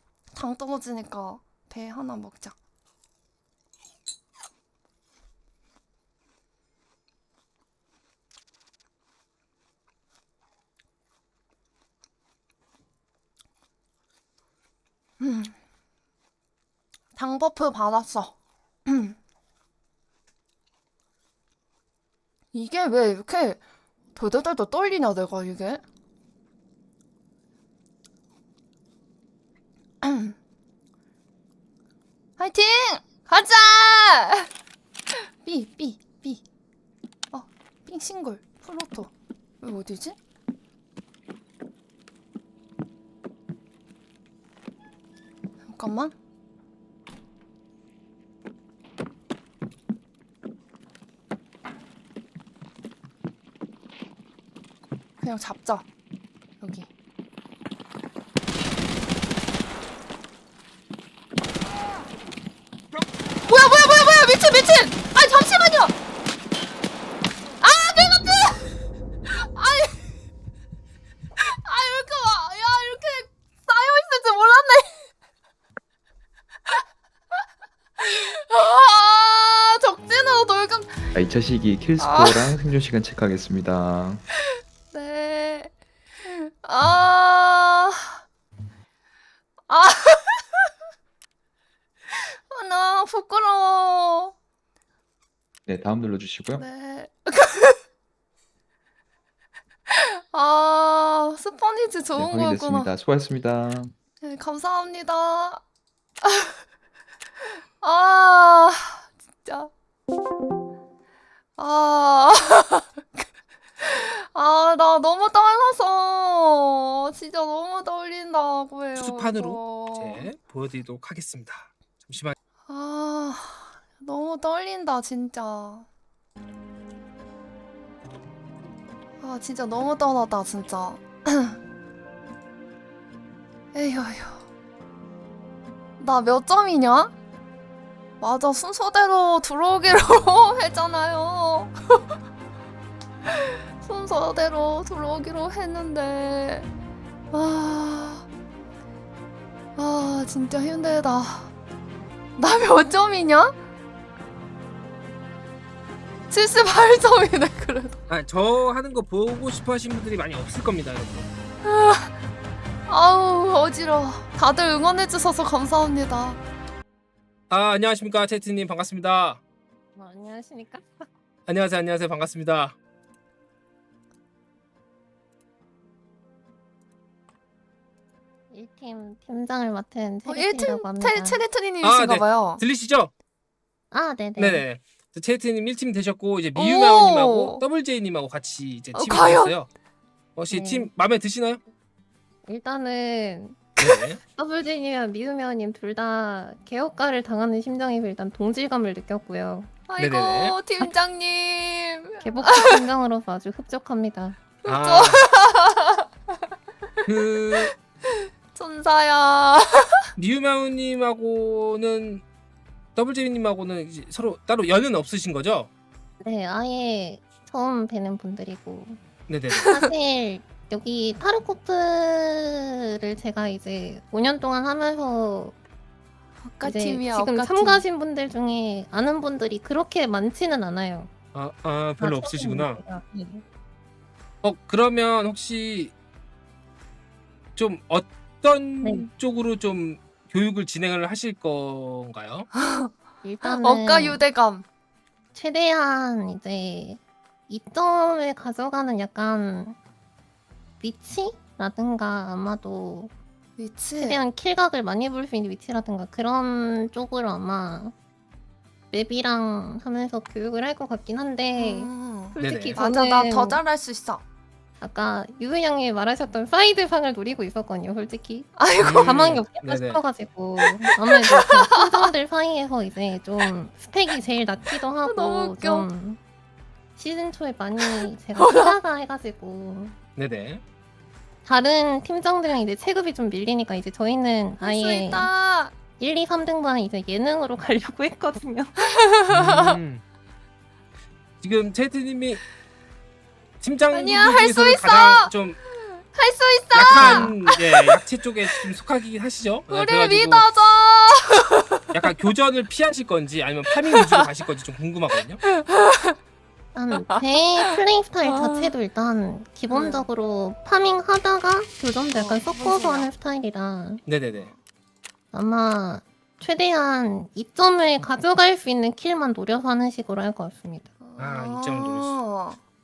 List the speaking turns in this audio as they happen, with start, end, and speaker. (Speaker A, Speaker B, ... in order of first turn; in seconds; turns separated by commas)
Speaker A: 0.3-2.5, Speaker A: 15.2-15.6, Speaker A: 17.1-18.4, Speaker A: 18.9-19.2, Speaker A: 22.5-23.6, Speaker A: 24.1-25.8, Speaker A: 30.0-30.4, Speaker A: 32.4-34.5, Speaker A: 35.1-36.4, Speaker A: 37.3-40.2, Speaker A: 45.7-46.1, Speaker A: 55.2-55.9, Speaker A: 56.6-56.9, Speaker A: 63.5-65.9, Speaker A: 67.6-68.7, Speaker A: 69.3-70.1, Speaker A: 71.4-75.1, Speaker A: 78.0-81.1, Speaker B: 81.2-84.2, Speaker A: 82.0-82.5, Speaker A: 84.9-85.7, Speaker A: 86.2-88.2, Speaker A: 89.7-90.7, Speaker A: 92.1-94.3, Speaker B: 95.7-96.7, Speaker A: 96.6-97.8, Speaker A: 99.9-102.9, Speaker B: 102.2-103.9, Speaker A: 104.2-105.6, Speaker A: 106.2-106.6, Speaker A: 107.8-109.7, Speaker A: 111.6-113.3, Speaker A: 113.8-120.3, Speaker C: 119.0-122.4, Speaker A: 122.7-125.9, Speaker A: 129.2-131.6, Speaker A: 133.7-134.4, Speaker A: 136.0-137.1, Speaker A: 138.2-142.0, Speaker A: 143.3-146.7, Speaker A: 147.3-148.3, Speaker A: 149.8-151.5, Speaker A: 152.4-153.6, Speaker A: 156.3-158.0, Speaker C: 158.1-161.3, Speaker A: 161.6-162.1, Speaker A: 162.9-166.4, Speaker C: 167.5-169.4, Speaker D: 169.9-171.1, Speaker C: 171.5-172.8, Speaker D: 178.5-181.4, Speaker A: 180.3-182.6, Speaker C: 181.8-183.1, Speaker D: 183.9-184.6, Speaker C: 184.4-189.7, Speaker A: 186.6-187.6, Speaker A: 188.9-189.6, Speaker C: 190.4-191.6, Speaker D: 190.5-190.9, Speaker D: 192.5-193.7, Speaker C: 193.8-194.2, Speaker D: 194.3-199.7, Speaker A: 199.9-202.8, Speaker C: 200.0-200.6, Speaker D: 202.2-204.4, Speaker C: 204.7-205.3, Speaker A: 204.7-206.1, Speaker C: 207.1-207.7, Speaker A: 208.5-210.0, Speaker C: 210.2-212.2, Speaker C: 213.0-215.7, Speaker D: 216.2-219.0, Speaker C: 219.3-219.7, Speaker A: 219.6-219.9, Speaker D: 219.7-225.6, Speaker A: 226.4-227.8, Speaker D: 226.6-231.1, Speaker C: 231.3-232.8, Speaker D: 232.0-233.4, Speaker C: 234.4-235.9, Speaker C: 237.6-242.5, Speaker D: 238.8-239.1, Speaker A: 242.6-244.7, Speaker D: 243.2-244.2, Speaker D: 245.3-249.8, Speaker D: 250.8-253.1, Speaker A: 253.6-254.2, Speaker D: 254.0-257.9, Speaker D: 258.9-263.6, Speaker A: 261.6-264.2, Speaker C: 262.4-262.8, Speaker D: 264.8-276.2, Speaker A: 268.6-269.2, Speaker C: 268.8-270.0, Speaker A: 270.6-272.0, Speaker A: 275.1-275.9, Speaker D: 277.0-280.0, Speaker A: 277.8-278.8, Speaker C: 280.2-280.6, Speaker D: 281.4-285.3, Speaker A: 284.6-285.7, Speaker D: 286.0-288.8, Speaker A: 288.9-289.8, Speaker C: 289.3-290.0, Speaker C: 291.4-292.4, Speaker C: 293.6-295.6, Speaker A: 293.9-298.0, Speaker C: 296.7-300.4, Speaker D: 296.9-297.3, Speaker A: 299.7-301.9, Speaker C: 301.9-305.4, Speaker A: 305.6-306.1, Speaker D: 306.8-314.1, Speaker A: 307.1-307.7, Speaker A: 308.3-308.7, Speaker A: 309.7-310.1, Speaker A: 312.1-313.1, Speaker C: 314.1-314.5, Speaker A: 314.3-314.6, Speaker D: 315.3-320.9, Speaker A: 321.0-322.6, Speaker C: 321.2-322.2